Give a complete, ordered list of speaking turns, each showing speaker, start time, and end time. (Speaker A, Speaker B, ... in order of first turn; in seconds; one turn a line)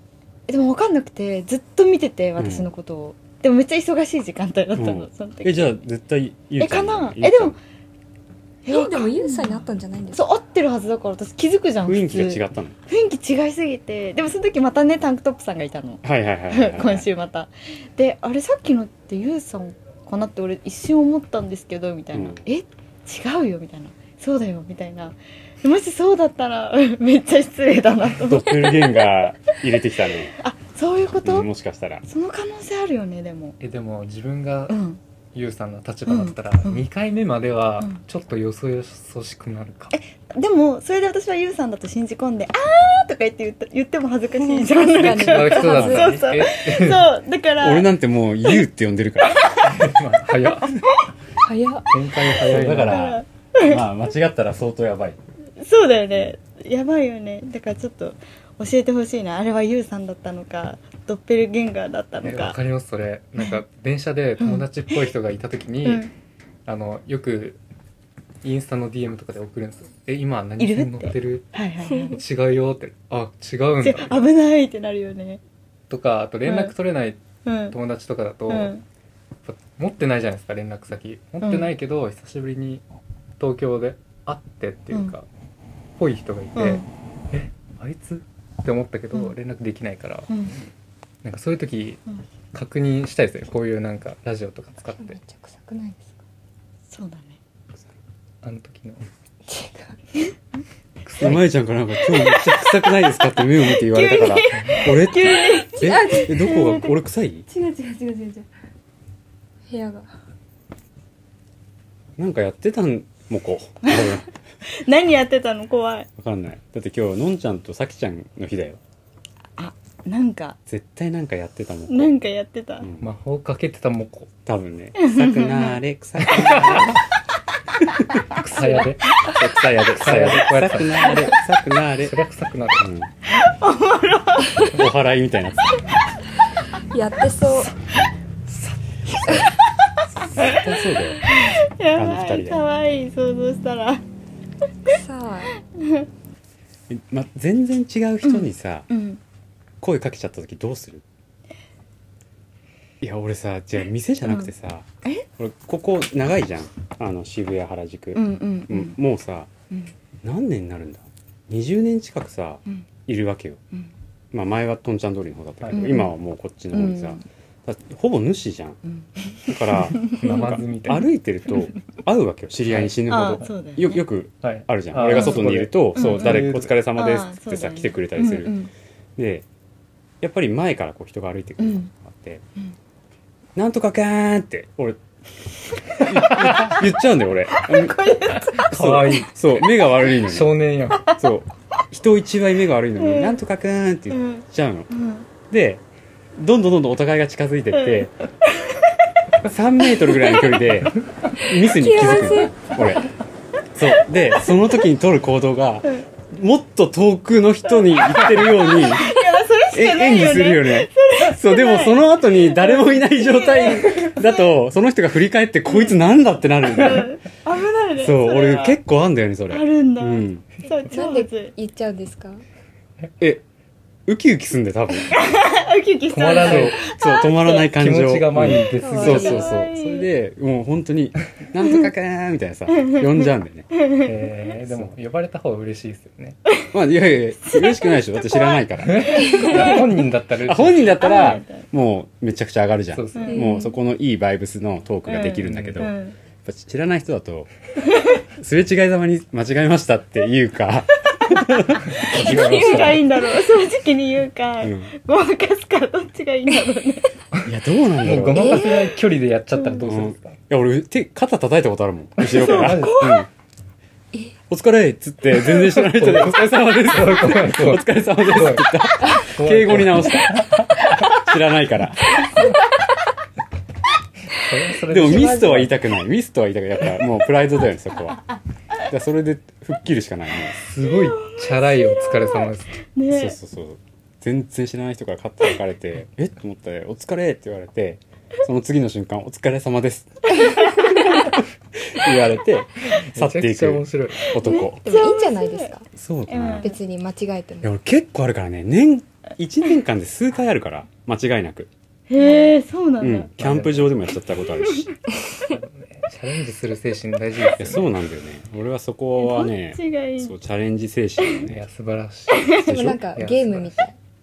Speaker A: 0.5-5.8
Speaker B: 2.4-2.7
Speaker B: 4.8-7.6
Speaker A: 6.6-7.6
Speaker A: 8.7-29.1
Speaker C: 8.7-10.3
Speaker B: 11.9-12.8
Speaker B: 16.0-17.1
Speaker B: 22.1-22.4
Speaker B: 28.2-30.4
Speaker A: 30.3-31.5
Speaker B: 31.2-32.0
Speaker A: 32.1-33.6
Speaker D: 33.6-34.8
Speaker A: 34.7-35.0
Speaker D: 35.3-39.9
Speaker A: 36.1-36.8
Speaker A: 39.9-47.9
Speaker C: 44.5-46.1
Speaker D: 45.1-47.1
Speaker B: 45.8-46.1
Speaker B: 47.6-49.8
Speaker A: 49.2-49.7
Speaker D: 49.6-50.7
Speaker C: 51.4-51.9
Speaker D: 51.9-53.0
Speaker B: 52.4-55.2
Speaker A: 52.7-53.8
Speaker A: 55.6-62.6
Speaker D: 62.2-66.1
Speaker A: 64.4-64.7
Speaker A: 65.8-66.1
Speaker D: 66.7-67.6
Speaker D: 68.4-71.5
Speaker A: 70.6-72.2
Speaker D: 72.1-74.2
Speaker A: 73.8-75.4
Speaker D: 75.9-78.7
Speaker A: 76.5-76.7
Speaker A: 77.5-77.8
Speaker A: 78.5-78.8
Speaker D: 79.5-82.8
Speaker A: 81.4-81.7
Speaker D: 83.4-85.3
Speaker D: 86.0-90.3
Speaker A: 86.6-86.9
Speaker A: 90.3-90.5
Speaker D: 91.2-92.0
Speaker D: 92.5-95.2
Speaker C: 95.0-96.2
Speaker A: 96.9-97.4
Speaker D: 98.4-99.0
Speaker C: 99.5-100.0
Speaker D: 101.0-101.5
Speaker B: 101.2-107.5
Speaker A: 102.1-107.0
Speaker D: 104.5-104.9
Speaker C: 105.8-106.5
Speaker C: 107.6-108.4
Speaker C: 109.7-110.1
Speaker B: 112.2-114.3
Speaker A: 113.9-116.1
Speaker B: 116.2-118.8
Speaker A: 119.6-120.6
Speaker B: 120.7-122.1
Speaker A: 121.9-122.9
Speaker B: 122.8-123.1
Speaker D: 123.0-124.3
Speaker B: 124.5-127.0
Speaker A: 125.0-125.8
Speaker D: 126.3-127.0
Speaker B: 127.8-128.3
Speaker D: 128.3-131.4
Speaker A: 128.4-129.3
Speaker B: 129.4-132.2
Speaker D: 132.0-132.9
Speaker B: 132.8-133.1
Speaker A: 133.3-134.9
Speaker B: 134.7-135.8
Speaker C: 136.9-137.7
Speaker A: 139.1-139.6
Speaker B: 140.1-141.4
Speaker A: 140.4-144.0
Speaker B: 141.9-142.6
Speaker C: 144.9-145.5
Speaker A: 145.7-146.1
Speaker B: 146.9-148.9
Speaker A: 148.2-149.2
Speaker B: 149.8-151.0
Speaker B: 153.0-159.5
Speaker A: 158.2-159.0
Speaker B: 160.2-163.6
Speaker B: 164.3-168.8
Speaker D: 165.6-165.9
Speaker A: 165.7-166.1
Speaker A: 166.7-167.2
Speaker A: 168.9-170.5
Speaker B: 169.4-178.6
Speaker D: 170.1-171.1
Speaker D: 172.7-173.5
Speaker A: 173.1-174.0
Speaker D: 174.4-176.7
Speaker A: 175.1-175.4
Speaker A: 176.0-178.7
Speaker B: 179.2-179.4
Speaker B: 180.2-182.4
Speaker A: 181.6-181.9
Speaker B: 183.6-185.0
Speaker B: 185.9-190.6
Speaker A: 187.5-189.2
Speaker D: 188.6-191.1
Speaker B: 191.1-194.9
Speaker A: 193.0-193.4
Speaker A: 194.1-195.3
Speaker B: 195.5-195.8
Speaker B: 196.3-198.1
Speaker A: 197.8-198.9
Speaker B: 199.4-203.1
Speaker A: 200.0-200.7
Speaker C: 201.6-202.7
Speaker B: 203.7-209.1
Speaker A: 207.7-214.5
Speaker B: 209.7-217.1
Speaker A: 215.7-216.0
Speaker A: 216.7-218.8
Speaker B: 218.0-220.5
Speaker A: 219.5-221.5
Speaker C: 220.9-222.4
Speaker B: 224.1-225.2
Speaker A: 225.1-227.7
Speaker D: 226.1-226.8
Speaker B: 226.4-233.7
Speaker D: 227.7-229.5
Speaker A: 228.7-230.1
Speaker C: 229.0-229.3
Speaker A: 232.9-233.2
Speaker A: 233.8-234.1
Speaker D: 234.0-236.4
Speaker B: 236.7-239.8
Speaker A: 237.4-240.0
Speaker D: 238.8-241.2
Speaker B: 240.4-247.5
Speaker A: 241.0-241.6
Speaker D: 242.9-243.4
Speaker A: 243.2-243.6
Speaker C: 243.3-243.7
Speaker A: 245.1-246.2
Speaker D: 245.5-245.8
Speaker A: 247.9-248.2
Speaker B: 248.4-252.7
Speaker A: 251.3-257.1
Speaker D: 251.9-253.1
Speaker B: 254.6-254.9
Speaker B: 257.4-258.6
Speaker D: 258.0-260.4
Speaker C: 258.3-258.8
Speaker A: 258.4-258.9
Speaker A: 259.6-259.9
Speaker B: 259.8-263.3
Speaker D: 262.2-263.1
Speaker A: 262.3-263.2
Speaker B: 264.5-272.4
Speaker D: 265.5-270.7
Speaker D: 274.4-275.7
Speaker B: 274.9-278.2
Speaker C: 275.1-275.6
Speaker B: 278.8-280.6
Speaker D: 280.6-282.8
Speaker A: 280.9-283.4
Speaker B: 283.1-294.8
Speaker A: 290.4-291.1
Speaker D: 293.0-294.3
Speaker A: 294.3-295.7
Speaker C: 294.8-295.9
Speaker B: 295.9-296.7
Speaker A: 296.3-296.8
Speaker C: 296.6-297.7
Speaker B: 297.6-301.7
Speaker A: 302.1-303.3
Speaker B: 303.0-304.9
Speaker D: 303.4-303.9
Speaker A: 304.6-304.9
Speaker D: 305.4-307.9
Speaker B: 307.6-311.6
Speaker A: 309.2-310.3
Speaker D: 311.5-312.6
Speaker A: 312.3-312.7
Speaker B: 312.6-313.0
Speaker C: 312.6-313.9
Speaker D: 313.1-313.8